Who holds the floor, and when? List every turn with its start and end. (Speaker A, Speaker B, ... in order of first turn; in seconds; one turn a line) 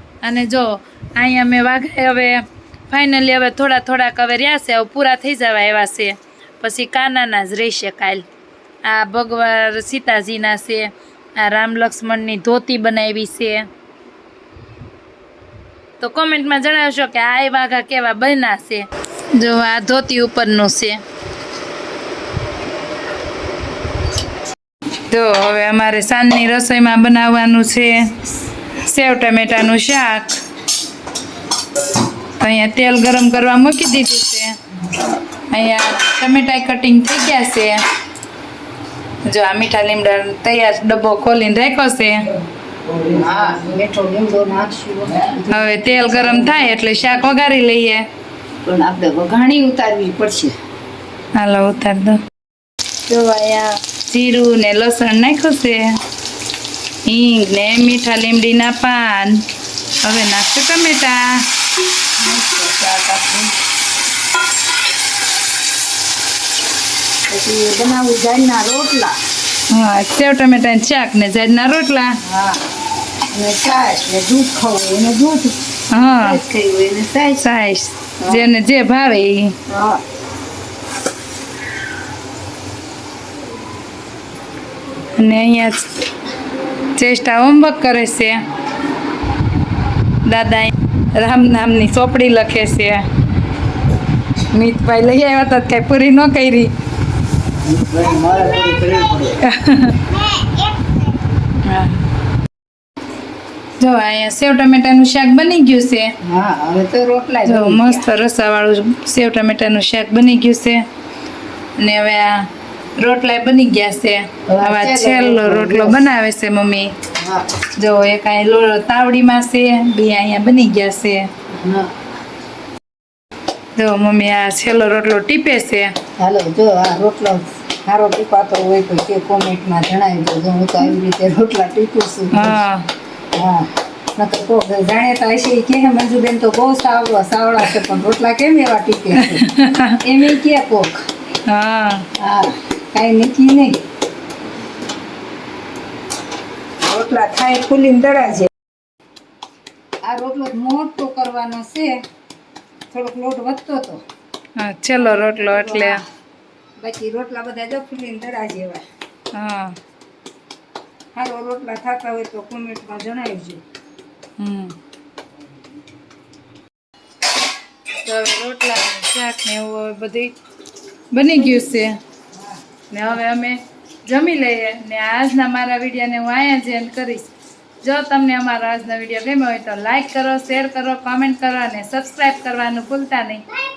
Speaker A: 0.2-8.2
Speaker A: 8.8-13.7
Speaker A: 16.0-21.0
Speaker A: 25.1-28.2
Speaker A: 28.8-30.4
Speaker A: 32.4-34.6
Speaker A: 35.5-37.8
Speaker A: 39.2-42.4
Speaker B: 42.9-46.7
Speaker A: 45.5-48.1
Speaker B: 48.6-50.5
Speaker A: 51.3-52.2
Speaker B: 53.1-53.7
Speaker A: 53.9-56.0
Speaker A: 57.0-59.4
Speaker A: 60.0-61.5
Speaker B: 62.2-63.5
Speaker B: 67.3-69.2
Speaker A: 69.7-72.1
Speaker B: 72.2-72.7
Speaker B: 73.3-77.5
Speaker A: 75.9-76.4
Speaker A: 77.4-79.5
Speaker B: 79.7-80.0
Speaker A: 85.1-85.9
Speaker A: 86.9-88.5
Speaker A: 90.2-93.1
Speaker A: 94.5-96.7
Speaker B: 97.6-99.4
Speaker A: 99.4-100.0
Speaker A: 101.6-102.0
Speaker A: 103.8-106.1
Speaker B: 106.2-108.0
Speaker A: 107.4-110.8
Speaker A: 111.8-116.9
Speaker B: 114.5-116.0
Speaker B: 117.2-117.5
Speaker A: 117.8-121.3
Speaker B: 121.5-121.9
Speaker A: 123.8-125.9
Speaker B: 126.2-132.6
Speaker A: 132.3-132.9
Speaker B: 133.3-139.4
Speaker A: 139.1-140.0
Speaker B: 140.0-141.0
Speaker A: 141.4-142.1
Speaker B: 142.2-143.8
Speaker B: 146.8-148.5
Speaker B: 150.0-152.0
Speaker B: 152.9-154.0
Speaker A: 154.6-156.0
Speaker B: 155.4-156.0
Speaker B: 156.8-158.8
Speaker A: 159.3-159.8
Speaker B: 161.1-163.6
Speaker A: 164.4-164.7
Speaker A: 168.0-170.3
Speaker A: 171.1-172.0
Speaker A: 172.9-177.3
Speaker A: 177.8-183.4